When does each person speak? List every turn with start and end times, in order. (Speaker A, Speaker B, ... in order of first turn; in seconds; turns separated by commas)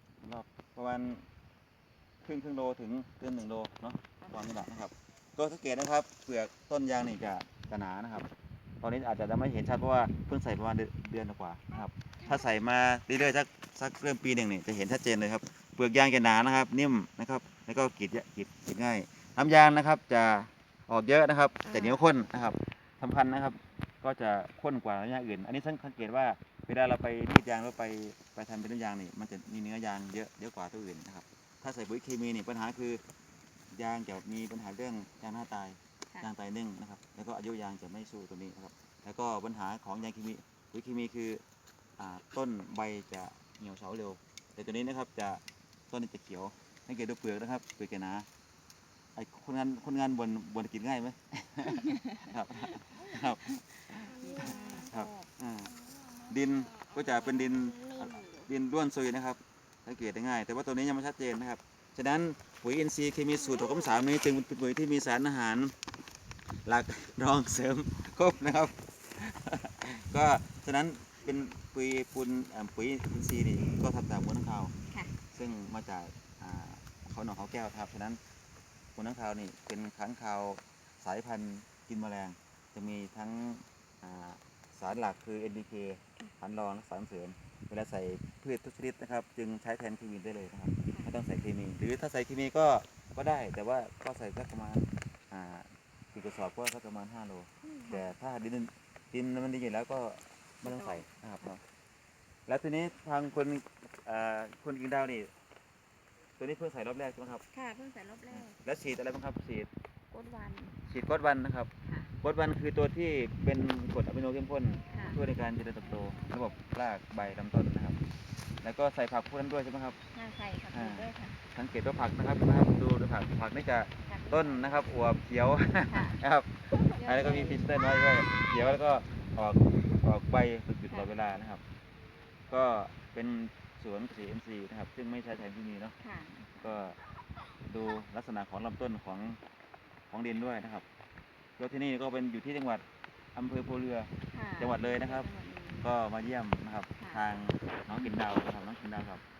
Speaker A: 0.2-1.3, Speaker A: 2.2-8.3, Speaker B: 4.2-4.6, Speaker A: 8.8-33.0, Speaker B: 12.2-12.5, Speaker B: 21.6-22.1, Speaker A: 33.7-41.4, Speaker A: 42.0-48.3, Speaker A: 49.1-65.7, Speaker B: 51.7-53.2, Speaker B: 53.9-55.3, Speaker B: 56.9-58.5, Speaker A: 66.6-74.7, Speaker A: 75.3-78.2, Speaker A: 79.0-101.6, Speaker B: 90.9-91.1, Speaker B: 97.6-98.1, Speaker B: 100.6-101.5, Speaker A: 102.5-105.3, Speaker A: 106.4-107.4, Speaker B: 107.5-108.6, Speaker A: 108.3-109.7, Speaker B: 110.1-110.8, Speaker A: 110.8-111.7, Speaker B: 111.8-112.1, Speaker A: 112.2-118.0, Speaker B: 114.9-115.2, Speaker A: 118.6-120.0, Speaker B: 120.1-121.4, Speaker A: 120.7-131.6, Speaker B: 124.0-124.8, Speaker B: 125.9-126.2, Speaker B: 126.7-127.7, Speaker A: 132.5-135.9, Speaker B: 136.0-136.9, Speaker A: 136.6-137.0, Speaker A: 137.7-139.4, Speaker A: 140.1-140.8, Speaker A: 141.6-145.3, Speaker B: 144.3-145.9, Speaker A: 145.8-149.2, Speaker B: 147.0-147.2, Speaker B: 147.9-148.1